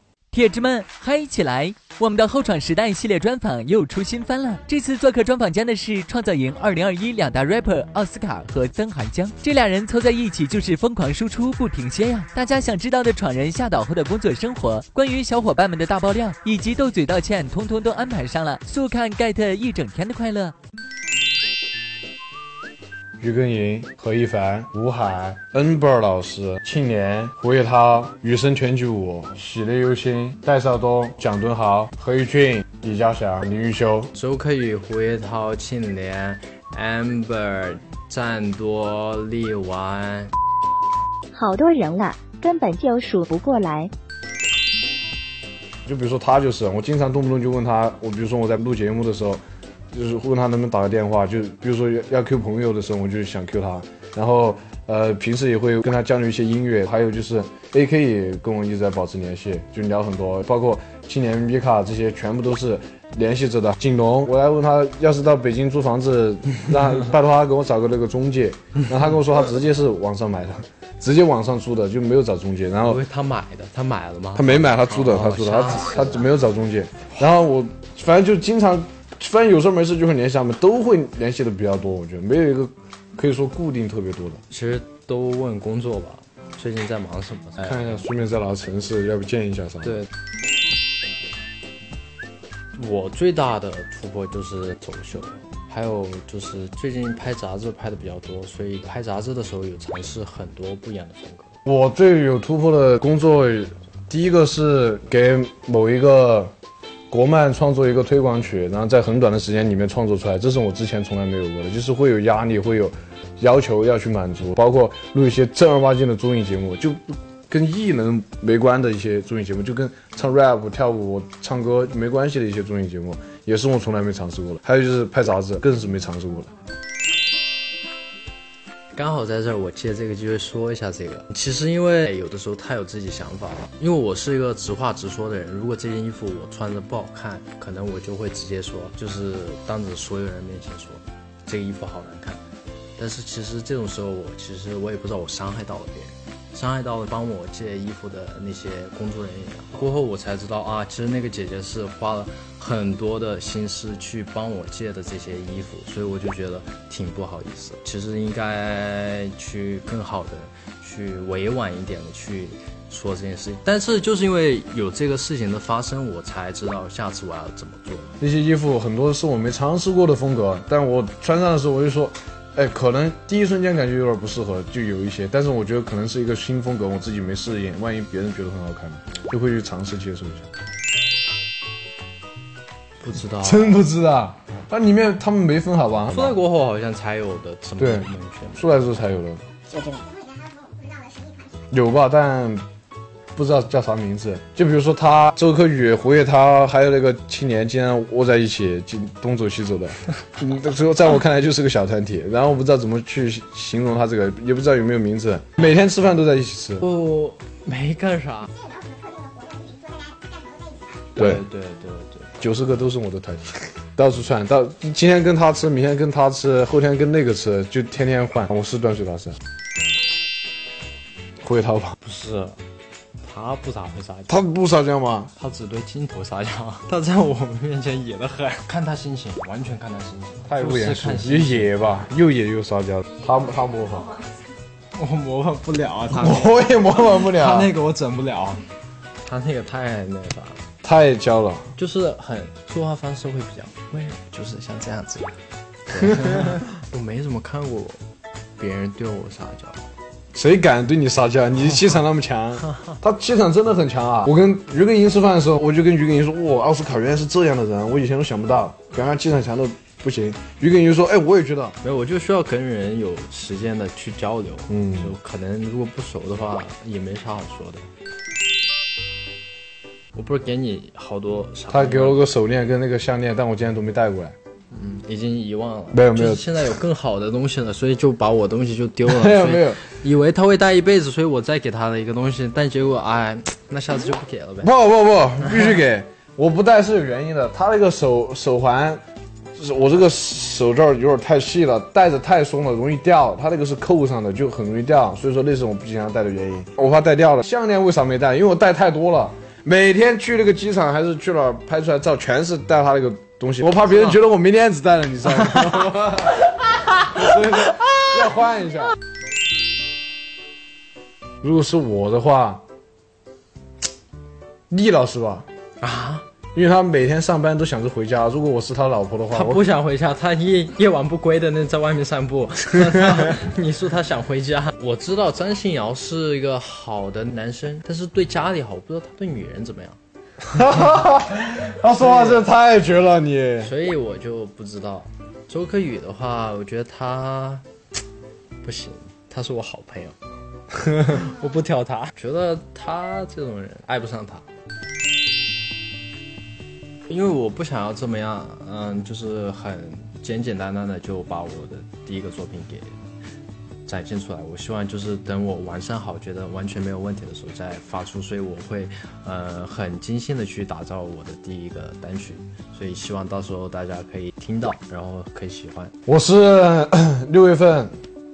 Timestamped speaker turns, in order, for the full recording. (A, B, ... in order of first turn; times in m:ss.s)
0:00.3-0:20.5 A
0:23.2-0:34.1 B
0:34.1-0:40.3 C
0:41.3-0:43.9 D
0:45.8-0:49.4 B
0:49.9-1:13.0 B
1:12.8-1:16.2 C
1:14.3-1:24.4 B
1:24.5-1:28.0 C
1:27.6-1:30.0 B
1:32.7-1:41.5 C
1:41.6-1:46.5 B
1:47.1-2:06.5 B
2:08.9-2:22.4 C
2:23.0-2:48.1 C
2:48.2-3:00.4 B
3:03.0-3:03.8 C
3:03.4-3:06.4 B
3:06.1-3:08.8 C
3:07.8-3:09.4 B
3:09.7-3:11.5 D
3:11.7-3:12.6 B
3:13.3-3:26.8 B
3:26.8-3:28.5 C
3:28.6-3:30.9 D
3:31.1-3:32.4 C
3:31.2-3:31.4 B
3:32.4-3:39.4 B
3:41.4-3:41.9 B
3:42.0-3:42.6 C
3:43.2-3:44.3 C
3:44.3-3:45.3 B
3:45.3-3:51.9 C
3:50.5-3:54.2 B
3:54.9-3:58.6 C
3:56.1-3:57.7 B
3:59.2-4:00.6 C
4:00.8-4:01.7 B
4:01.8-4:08.0 C
4:08.6-4:09.9 C
4:10.3-4:21.8 B
4:21.8-4:27.9 C
4:24.7-4:25.1 B
4:30.1-4:32.2 C
4:31.7-4:34.3 B
4:34.7-4:44.7 C
4:35.9-4:36.4 B
4:39.0-4:39.8 B
4:44.6-4:49.0 B
4:49.6-5:06.5 B
5:07.0-5:09.0 B
5:11.4-5:12.6 B
5:14.7-5:15.5 B
5:15.8-5:16.2 C
5:16.5-5:19.6 B
5:19.3-5:30.0 C
5:30.5-5:33.7 B
5:31.9-5:32.5 C
5:33.6-5:37.6 C
5:38.6-5:40.2 C
5:40.8-5:44.4 C
5:47.1-5:53.0 C
5:53.8-6:05.9 C
6:06.0-6:07.9 B